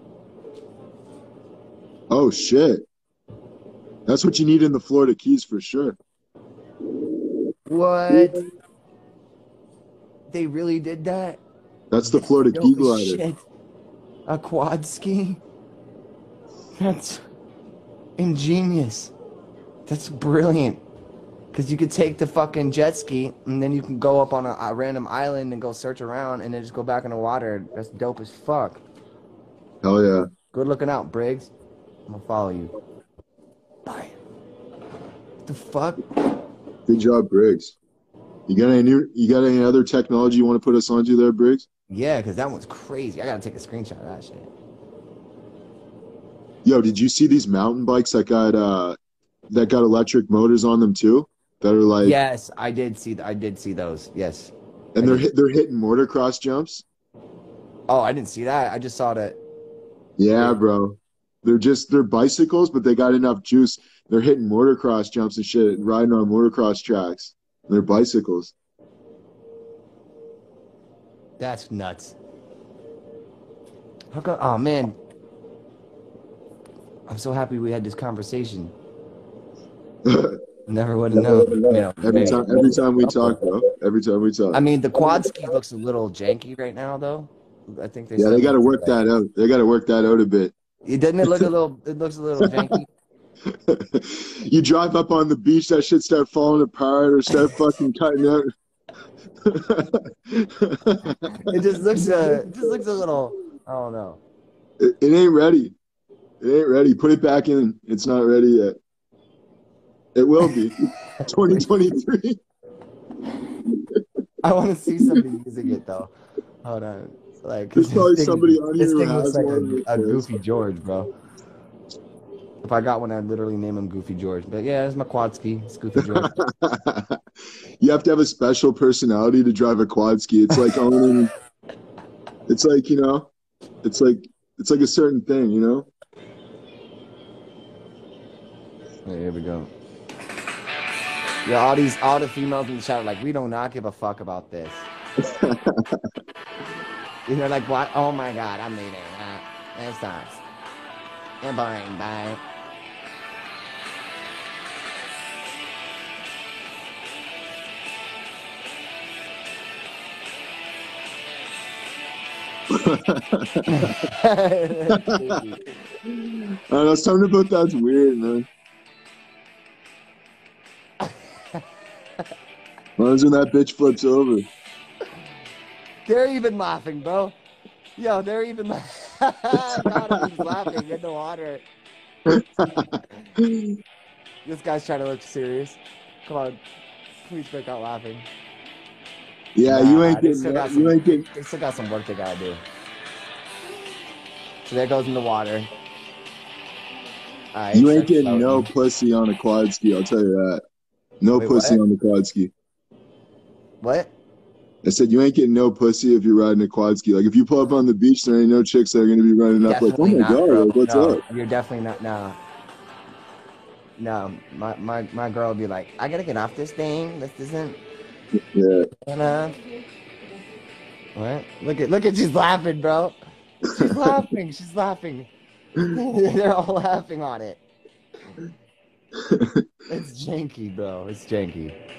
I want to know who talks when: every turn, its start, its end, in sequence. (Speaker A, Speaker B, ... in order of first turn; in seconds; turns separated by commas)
Speaker A: 2.1-2.9, Speaker A: 4.0-6.0, Speaker B: 7.7-8.4, Speaker B: 10.3-11.4, Speaker A: 11.9-13.2, Speaker B: 12.1-13.4, Speaker B: 14.3-15.4, Speaker B: 16.8-17.2, Speaker B: 18.2-19.1, Speaker B: 19.9-20.8, Speaker B: 21.5-28.8, Speaker A: 29.8-30.3, Speaker B: 30.5-31.5, Speaker B: 32.1-32.7, Speaker B: 33.9-34.1, Speaker B: 35.5-36.0, Speaker A: 36.9-37.8, Speaker A: 38.5-41.7, Speaker B: 41.9-44.5, Speaker A: 46.6-49.0, Speaker A: 49.5-52.2, Speaker B: 52.0-55.3, Speaker A: 54.9-56.8, Speaker B: 57.9-59.4, Speaker A: 60.2-68.5, Speaker B: 71.4-72.1, Speaker B: 74.1-75.0, Speaker B: 77.1-78.7, Speaker A: 80.0-80.4, Speaker B: 80.7-83.4, Speaker A: 81.1-85.3, Speaker B: 84.5-89.0, Speaker A: 88.2-90.5, Speaker B: 90.8-92.9, Speaker A: 91.2-91.5, Speaker A: 92.4-92.8, Speaker A: 93.5-98.5, Speaker A: 99.4-102.5, Speaker B: 101.5-104.2, Speaker A: 104.8-105.8, Speaker A: 106.4-108.8, Speaker A: 110.1-112.4, Speaker A: 113.7-114.0, Speaker B: 114.4-116.1, Speaker B: 116.6-121.1, Speaker A: 117.7-120.3, Speaker B: 122.6-126.3, Speaker A: 126.0-127.2, Speaker A: 127.8-131.3, Speaker A: 132.5-133.3, Speaker A: 133.8-135.9, Speaker B: 139.1-139.7, Speaker B: 141.4-144.9, Speaker A: 145.2-146.1, Speaker B: 147.3-150.4, Speaker B: 151.4-152.4, Speaker A: 162.7-163.9, Speaker B: 163.7-165.7, Speaker A: 164.9-165.4, Speaker A: 166.1-168.5, Speaker A: 173.0-174.5, Speaker B: 176.1-177.3, Speaker B: 178.0-181.6, Speaker A: 179.5-180.0, Speaker A: 182.3-183.7, Speaker B: 184.4-186.6, Speaker B: 187.2-188.3, Speaker A: 189.5-191.2, Speaker B: 189.7-192.6, Speaker B: 194.7-195.7, Speaker B: 197.5-198.7, Speaker A: 197.7-200.6, Speaker A: 201.2-202.5, Speaker B: 201.3-201.8, Speaker B: 203.8-204.1, Speaker A: 204.8-211.2, Speaker B: 209.6-212.4, Speaker B: 214.0-217.8, Speaker A: 218.5-218.9, Speaker B: 219.1-219.6, Speaker B: 221.2-225.3, Speaker A: 223.7-224.2, Speaker B: 225.9-227.6, Speaker A: 229.2-229.7, Speaker B: 229.9-231.8